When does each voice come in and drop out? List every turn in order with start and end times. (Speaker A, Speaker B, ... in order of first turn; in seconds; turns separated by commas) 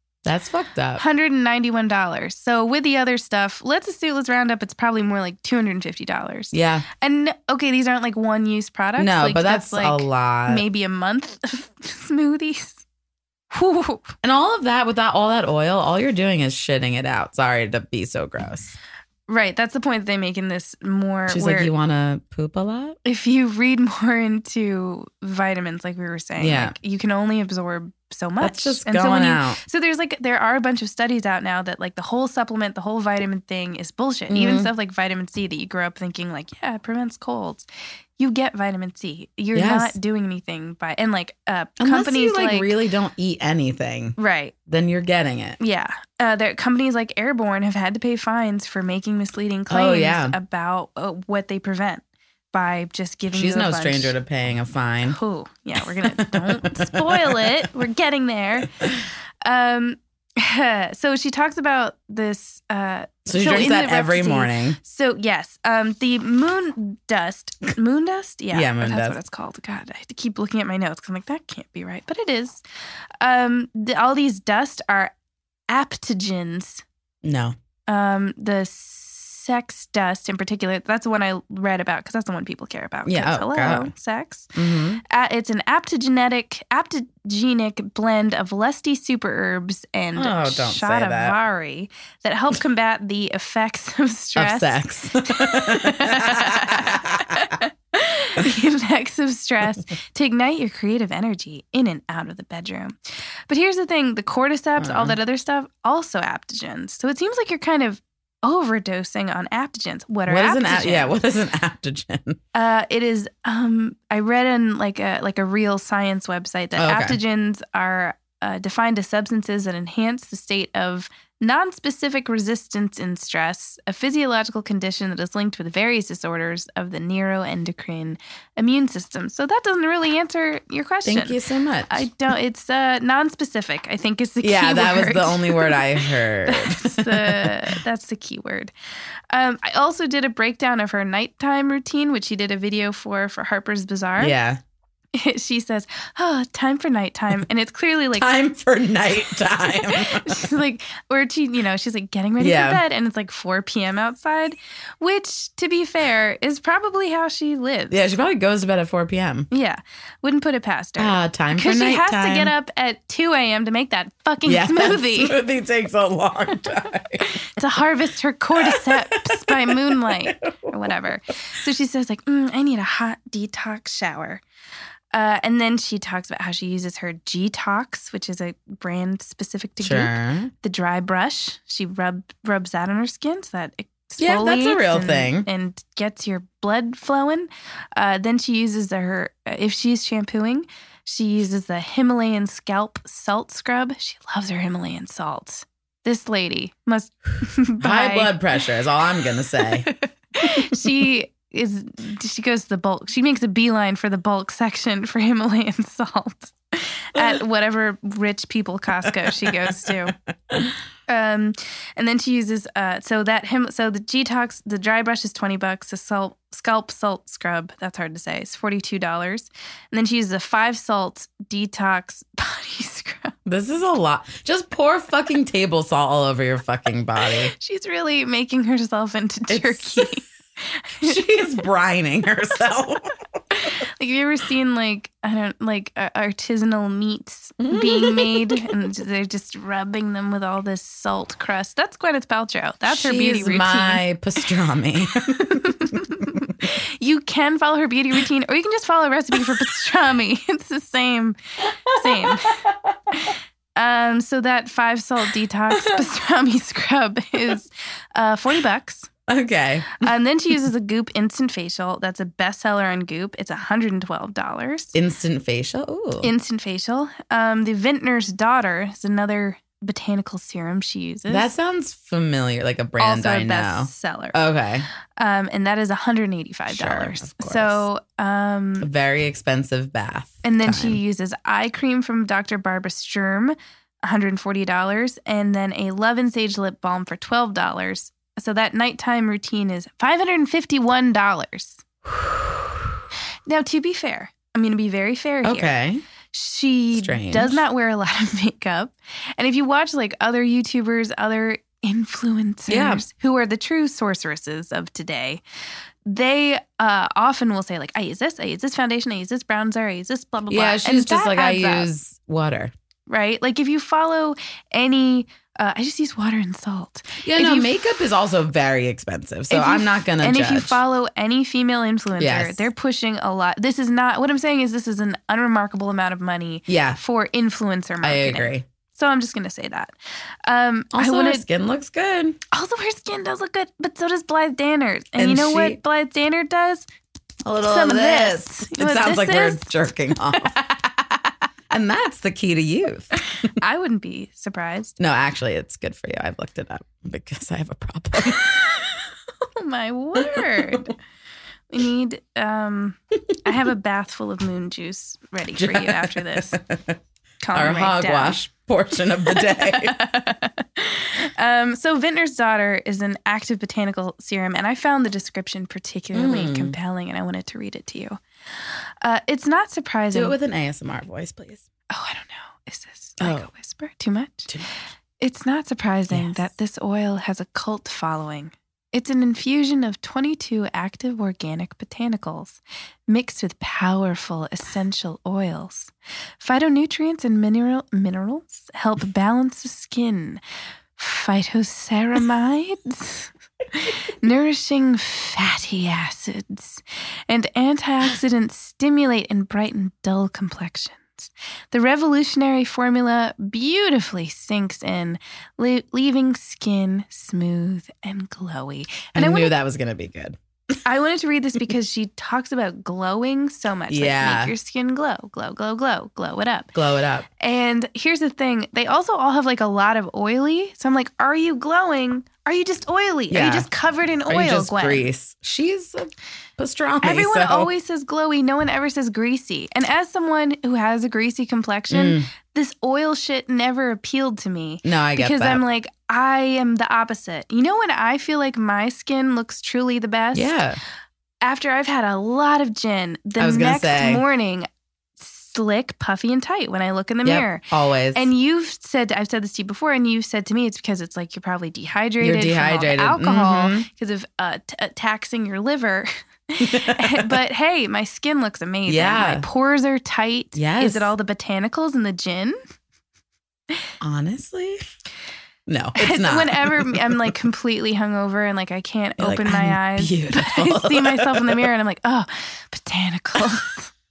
Speaker A: 0.2-1.0, Speaker B: 1.0-12.8, Speaker A: 6.5-6.8, Speaker A: 9.0-10.6, Speaker B: 13.5-14.1, Speaker A: 14.2-18.8, Speaker B: 19.3-21.7, Speaker A: 21.3-23.0, Speaker B: 23.0-37.6, Speaker A: 26.4-26.7, Speaker A: 28.4-29.6, Speaker A: 34.3-34.7, Speaker B: 38.2-42.7, Speaker A: 39.5-40.0, Speaker A: 41.8-45.6, Speaker B: 44.2-44.5, Speaker B: 45.6-54.1, Speaker A: 49.7-50.4, Speaker A: 53.3-55.2, Speaker B: 55.1-72.6, Speaker A: 56.0-57.6, Speaker A: 63.2-64.8, Speaker A: 68.5-69.2, Speaker B: 73.2-75.1, Speaker B: 75.7-76.8, Speaker A: 77.2-77.5, Speaker B: 77.9-84.5, Speaker A: 83.0-83.9, Speaker A: 84.5-85.0, Speaker B: 85.0-103.0, Speaker A: 90.2-91.4, Speaker A: 94.3-97.5, Speaker B: 103.5-111.1, Speaker A: 104.8-105.2, Speaker A: 110.3-112.4, Speaker B: 112.5-131.4, Speaker A: 116.8-117.2, Speaker A: 131.0-132.1, Speaker B: 131.9-135.9, Speaker A: 134.4-137.8, Speaker B: 136.4-138.7, Speaker B: 139.3-144.3, Speaker A: 144.2-144.6, Speaker B: 145.1-148.3, Speaker A: 148.1-150.5, Speaker B: 149.6-158.0, Speaker A: 152.4-152.8, Speaker A: 157.9-159.5, Speaker B: 159.5-165.3, Speaker A: 161.0-162.5, Speaker A: 164.4-167.3, Speaker B: 167.2-174.4, Speaker A: 168.6-170.7, Speaker B: 175.1-198.3, Speaker A: 179.8-180.5, Speaker A: 184.2-185.5, Speaker A: 197.8-199.9, Speaker B: 199.9-210.1, Speaker A: 200.4-200.7, Speaker A: 209.0-210.7, Speaker B: 211.1-223.3, Speaker A: 223.4-227.5, Speaker B: 227.5-231.2, Speaker A: 229.5-230.1, Speaker A: 231.0-233.1, Speaker B: 233.5-244.0, Speaker A: 237.6-238.8, Speaker A: 242.9-246.3, Speaker B: 245.3-259.1, Speaker A: 251.9-253.2, Speaker A: 259.3-260.1, Speaker B: 260.0-264.9, Speaker A: 264.9-266.3, Speaker B: 266.2-271.5, Speaker A: 271.3-274.9, Speaker B: 273.0-274.4, Speaker B: 275.2-278.9, Speaker A: 276.7-277.8, Speaker A: 278.8-281.0, Speaker B: 280.4-291.8, Speaker A: 292.1-293.0, Speaker B: 293.5-295.7, Speaker A: 295.4-296.0, Speaker B: 296.3-305.4, Speaker A: 296.9-297.6, Speaker A: 302.7-303.0, Speaker B: 306.1-311.9, Speaker A: 310.5-312.7, Speaker B: 313.1-317.7, Speaker A: 317.2-320.8, Speaker B: 319.5-329.9, Speaker A: 322.2-322.7, Speaker A: 326.7-327.0, Speaker A: 328.0-328.6, Speaker B: 330.5-331.4, Speaker A: 330.9-332.4, Speaker B: 332.5-336.9, Speaker A: 335.2-335.8, Speaker A: 337.4-340.6, Speaker B: 337.6-339.7, Speaker B: 340.4-341.3, Speaker A: 341.7-343.5, Speaker B: 343.6-345.0, Speaker A: 345.0-348.4, Speaker B: 348.2-350.9, Speaker A: 350.2-350.9, Speaker B: 351.7-356.6, Speaker A: 355.5-357.0, Speaker B: 357.4-358.4, Speaker A: 357.5-360.0, Speaker B: 359.3-370.4, Speaker A: 366.1-366.8, Speaker A: 370.1-371.6, Speaker B: 371.9-374.5, Speaker A: 373.2-373.5, Speaker B: 375.2-390.4, Speaker A: 376.1-376.4, Speaker B: 391.0-409.5, Speaker A: 409.1-410.4, Speaker B: 410.8-416.7, Speaker A: 413.9-414.5, Speaker A: 416.7-417.3, Speaker B: 417.4-425.1, Speaker A: 423.3-423.7, Speaker A: 424.3-427.7, Speaker B: 427.0-440.6, Speaker A: 431.9-432.3, Speaker A: 434.8-435.6, Speaker A: 440.3-440.8, Speaker B: 441.4-444.7, Speaker A: 443.4-444.2, Speaker B: 445.2-462.6, Speaker A: 447.2-448.3, Speaker A: 452.2-453.9, Speaker A: 456.6-457.4, Speaker A: 458.9-459.4, Speaker A: 460.5-461.1, Speaker A: 464.0-464.8, Speaker A: 465.7-467.2, Speaker B: 465.9-473.9, Speaker A: 469.2-471.7